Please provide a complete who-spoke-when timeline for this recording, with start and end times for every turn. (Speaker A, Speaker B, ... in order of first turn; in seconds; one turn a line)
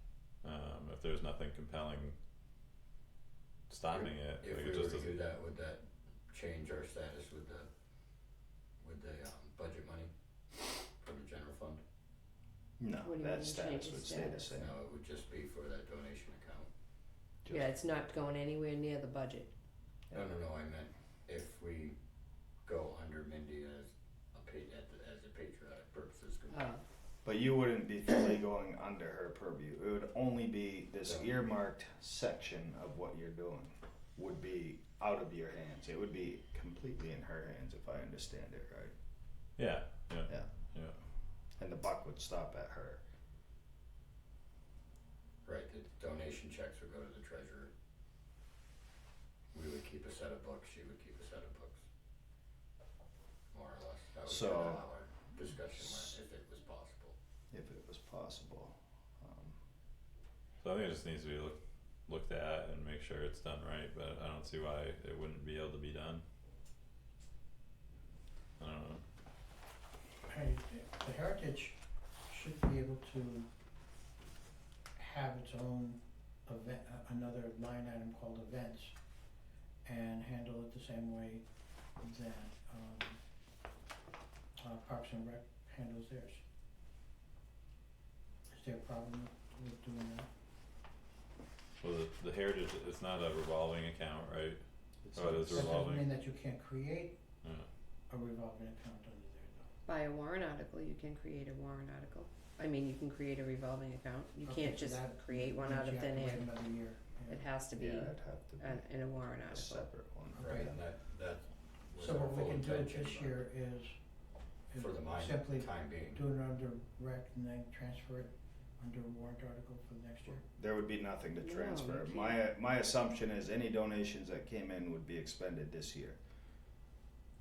Speaker A: 0.4-2.1
Speaker A: 3.7-5.2
Speaker B: 3.9-7.7
Speaker B: 8.8-10.1
Speaker B: 11.0-11.8
Speaker C: 12.8-14.8
Speaker D: 13.0-14.5
Speaker B: 14.5-16.7
Speaker C: 17.4-17.8
Speaker D: 17.5-19.5
Speaker C: 20.1-20.4
Speaker B: 20.1-22.0
Speaker B: 22.6-26.7
Speaker D: 26.5-26.8
Speaker C: 27.2-38.9
Speaker B: 31.0-31.3
Speaker A: 39.6-40.9
Speaker C: 41.6-43.0
Speaker B: 45.4-47.7
Speaker B: 49.5-51.8
Speaker B: 53.5-57.1
Speaker C: 54.3-54.9
Speaker C: 57.5-59.6
Speaker A: 60.6-66.2
Speaker A: 68.6-69.0
Speaker E: 70.3-73.5
Speaker E: 75.0-79.0
Speaker E: 79.8-81.5
Speaker E: 82.0-83.2
Speaker E: 84.6-86.4
Speaker E: 88.5-90.3
Speaker A: 91.8-94.6
Speaker C: 95.1-95.7
Speaker A: 95.1-96.1
Speaker E: 95.5-97.2
Speaker A: 97.4-97.7
Speaker E: 98.1-99.7
Speaker D: 99.9-106.5
Speaker E: 104.4-107.5
Speaker D: 107.3-109.9
Speaker C: 107.7-110.8
Speaker E: 110.3-110.7
Speaker B: 110.4-113.4
Speaker E: 112.0-114.0
Speaker E: 114.7-120.5
Speaker B: 114.8-116.2
Speaker C: 120.4-126.2
Speaker D: 121.4-122.4